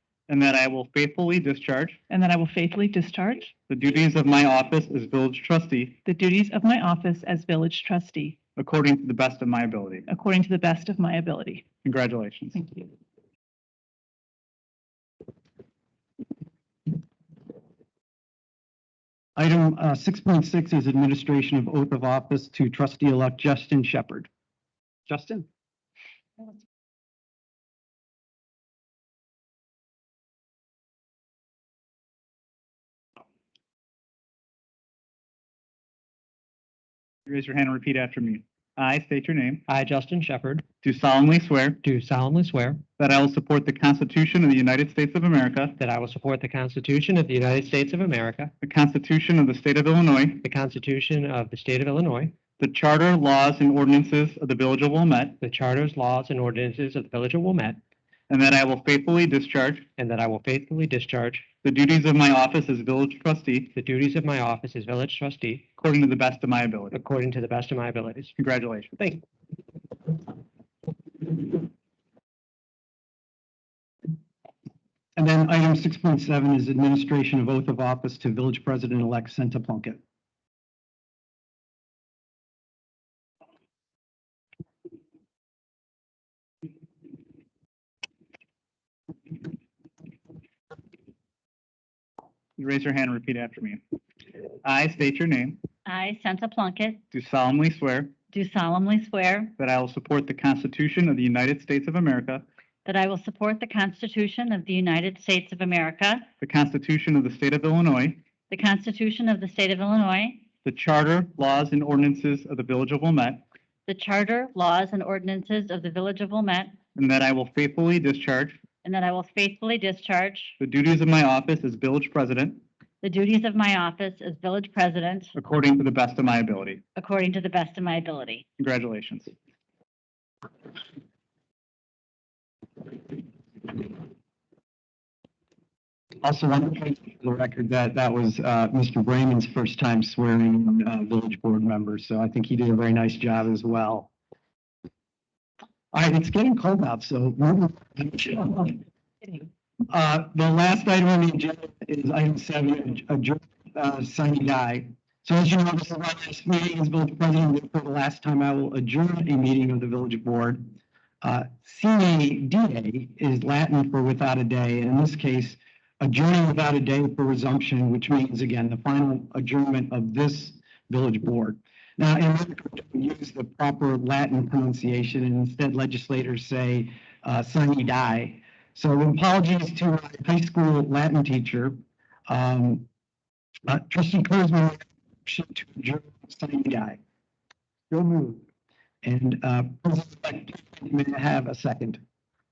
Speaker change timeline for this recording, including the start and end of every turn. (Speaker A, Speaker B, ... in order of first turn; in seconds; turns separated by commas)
Speaker A: 0.3-2.0, Speaker B: 2.1-3.5, Speaker A: 3.7-6.0, Speaker B: 6.0-8.4, Speaker A: 8.6-10.1, Speaker B: 10.1-11.7, Speaker A: 11.8-12.6, Speaker B: 12.5-12.9, Speaker C: 19.4-24.3, Speaker C: 25.1-25.4, Speaker A: 37.3-39.6, Speaker D: 39.7-40.6, Speaker A: 40.8-41.8, Speaker D: 41.8-42.8, Speaker A: 43.0-45.8, Speaker D: 45.8-48.5, Speaker A: 48.6-50.4, Speaker D: 50.4-52.3, Speaker A: 52.6-55.4, Speaker D: 55.4-57.8, Speaker A: 58.3-59.9, Speaker D: 60.0-61.5, Speaker A: 61.6-63.7, Speaker D: 63.7-65.7, Speaker A: 65.8-67.0, Speaker D: 66.9-68.3, Speaker A: 68.4-69.0, Speaker C: 75.2-80.0, Speaker A: 92.6-93.8, Speaker A: 94.6-95.6, Speaker E: 95.8-97.0, Speaker A: 97.1-98.1, Speaker E: 98.3-99.5, Speaker A: 99.6-102.4, Speaker E: 102.8-106.2, Speaker A: 106.4-108.2, Speaker E: 108.5-110.4, Speaker A: 110.6-113.4, Speaker E: 113.9-116.8, Speaker A: 117.0-118.6, Speaker E: 118.8-120.6, Speaker A: 120.6-122.6, Speaker E: 123.0-125.3, Speaker A: 125.3-126.8, Speaker E: 127.0-128.4, Speaker A: 128.6-129.3, Speaker C: 136.2-144.1, Speaker C: 145.9-149.4, Speaker C: 149.9-160.6, Speaker C: 161.2-182.8, Speaker C: 183.7-187.0, Speaker C: 187.9-188.4, Speaker C: 189.0-192.0